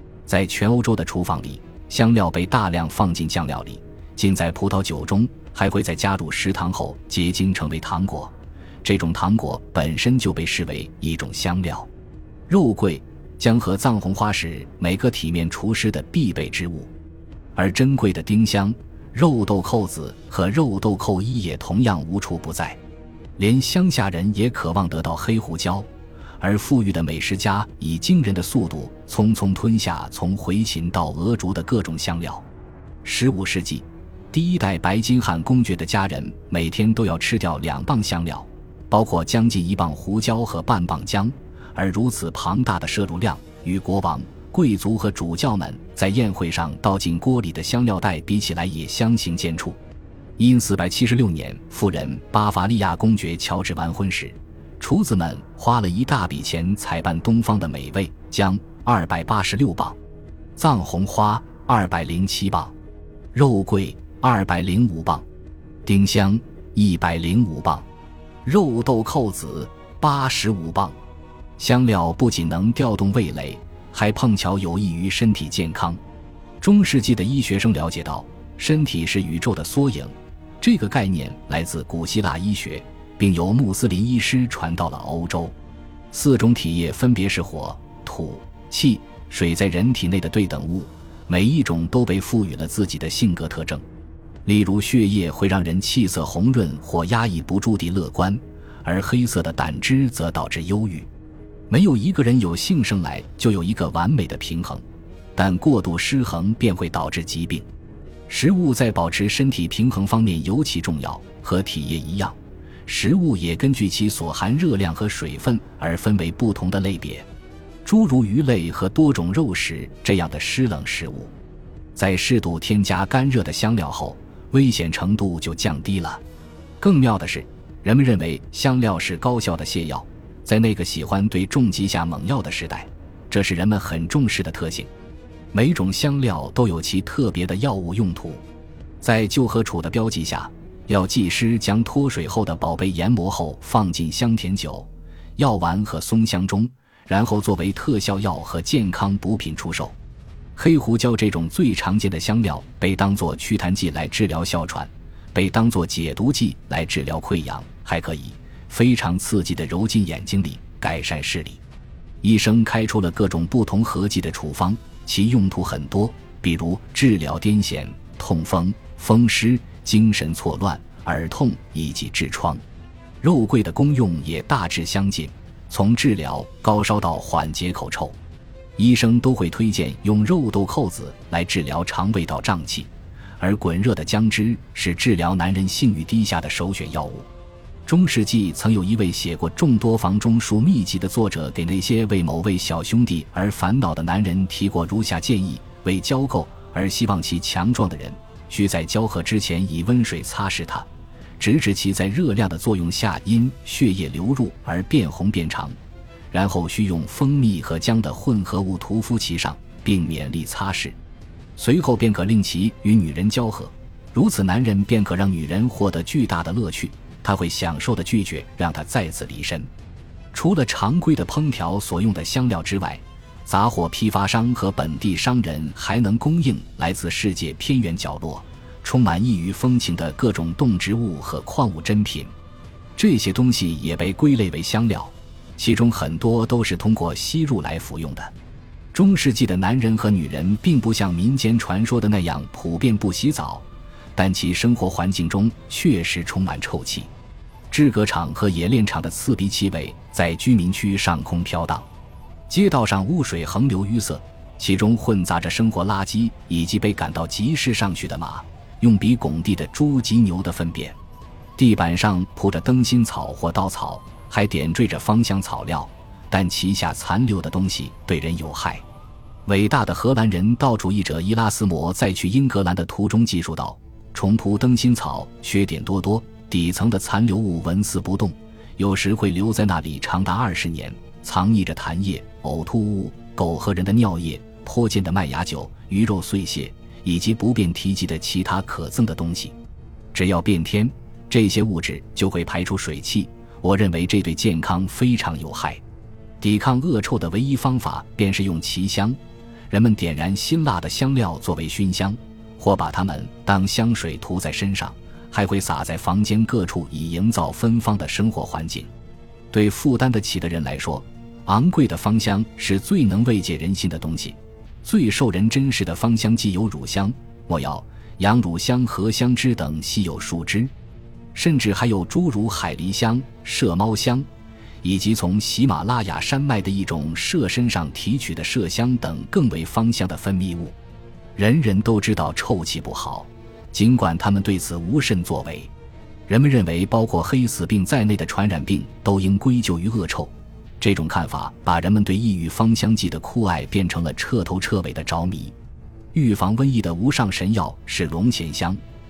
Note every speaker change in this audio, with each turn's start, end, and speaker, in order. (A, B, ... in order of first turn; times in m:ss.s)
0:00.3-0:11.9 A
0:12.5-0:16.9 A
0:17.6-0:22.8 A
0:23.4-0:25.9 A
0:26.4-0:32.4 A
0:33.0-0:49.8 A
0:50.4-1:00.0 A
1:00.6-1:02.8 A
1:03.3-1:05.3 A
1:05.9-1:07.9 A
1:08.4-1:11.0 A
1:11.6-1:16.0 A
1:16.6-1:25.6 A
1:26.1-1:33.8 A
1:34.4-1:41.1 A
1:41.7-1:44.8 A
1:45.4-1:47.7 A
1:48.3-1:57.3 A
1:57.8-2:01.3 A
2:02.0-2:06.2 A
2:06.8-2:14.9 A
2:15.5-2:18.4 A
2:19.0-2:30.0 A
2:30.6-2:41.6 A
2:42.2-2:52.6 A
2:53.2-2:58.2 A
2:58.8-3:07.3 A
3:07.9-3:20.9 A
3:21.4-3:25.8 A
3:26.3-3:31.0 A
3:31.6-3:39.7 A
3:40.3-3:52.3 A
3:53.0-3:58.3 A
3:58.9-4:07.1 A
4:07.7-4:11.9 A
4:12.5-4:21.0 A
4:21.6-4:28.8 A
4:29.5-4:49.6 A
4:50.1-4:55.8 A
4:56.4-4:59.2 A
4:59.7-5:08.9 A
5:09.5-5:20.7 A
5:21.3-5:24.3 A
5:24.8-5:30.8 A
5:31.4-5:35.7 A
5:36.3-5:45.6 A
5:46.1-5:48.8 A